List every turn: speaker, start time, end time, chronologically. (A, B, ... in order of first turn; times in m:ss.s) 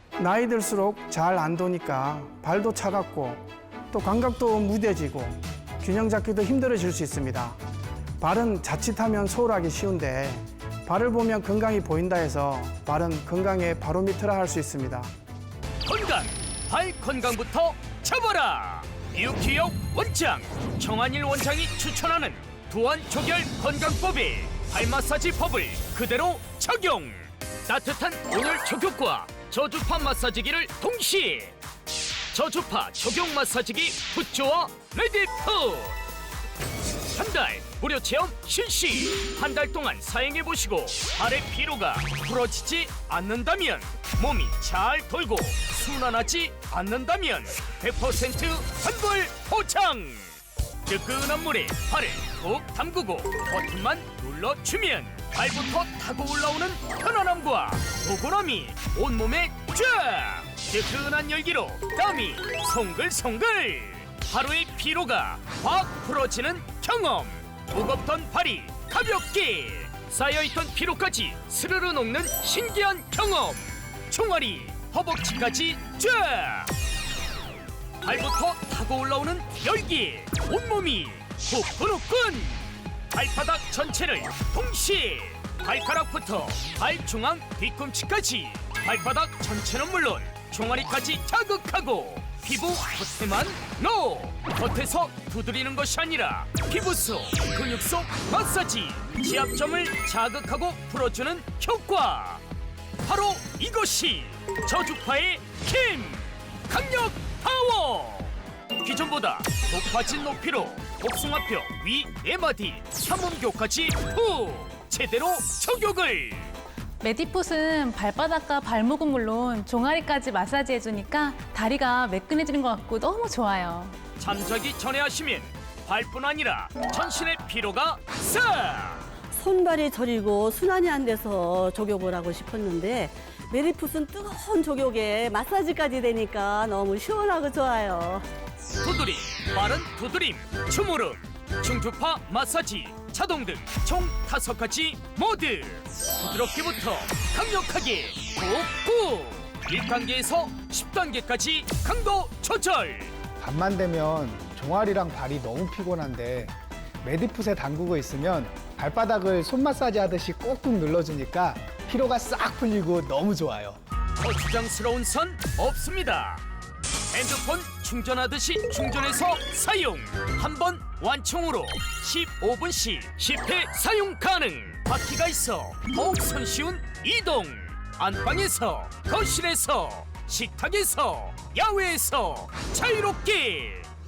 0:00.2-0:07.6 A
0:08.2-0:15.1 A
0:15.8-0:31.6 B
0:32.3-0:36.0 B
0:37.1-0:50.3 B
0:50.8-1:16.7 B
1:18.0-1:42.4 B
1:43.0-1:56.5 B
1:57.0-2:04.0 C
2:04.2-2:09.1 B
2:09.3-2:18.3 D
2:18.8-2:33.1 B
2:33.4-2:43.8 E
2:44.2-2:46.4 B
2:47.1-3:03.9 B